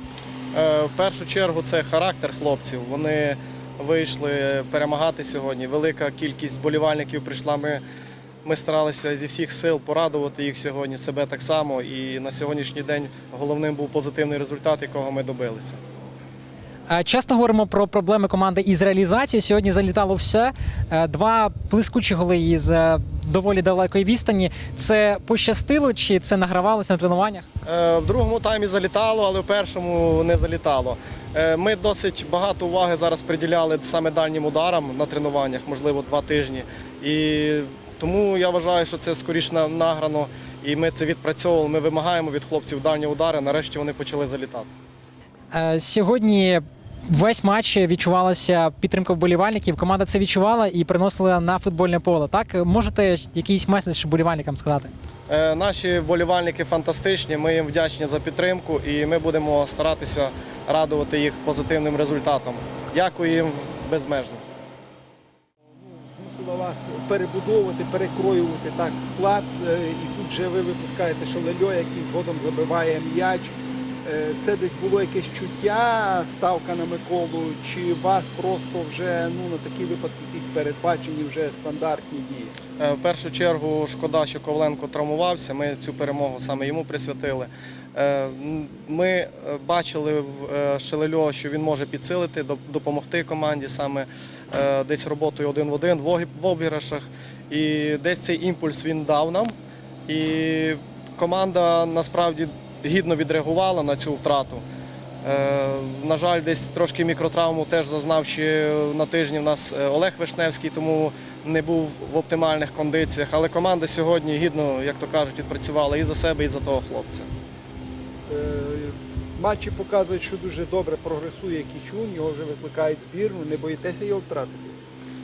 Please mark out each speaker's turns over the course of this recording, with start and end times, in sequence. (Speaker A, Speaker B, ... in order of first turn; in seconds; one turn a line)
Speaker A: 0.5-7.8
Speaker A: 8.4-15.8
Speaker B: 16.9-27.5
Speaker A: 27.6-44.7
Speaker B: 45.5-54.9
Speaker A: 55.3-64.4
Speaker C: 65.8-73.5
Speaker C: 74.0-82.5
Speaker A: 82.8-99.5
Speaker A: 100.1-104.6
Speaker A: 105.2-117.3
Speaker C: 118.3-124.8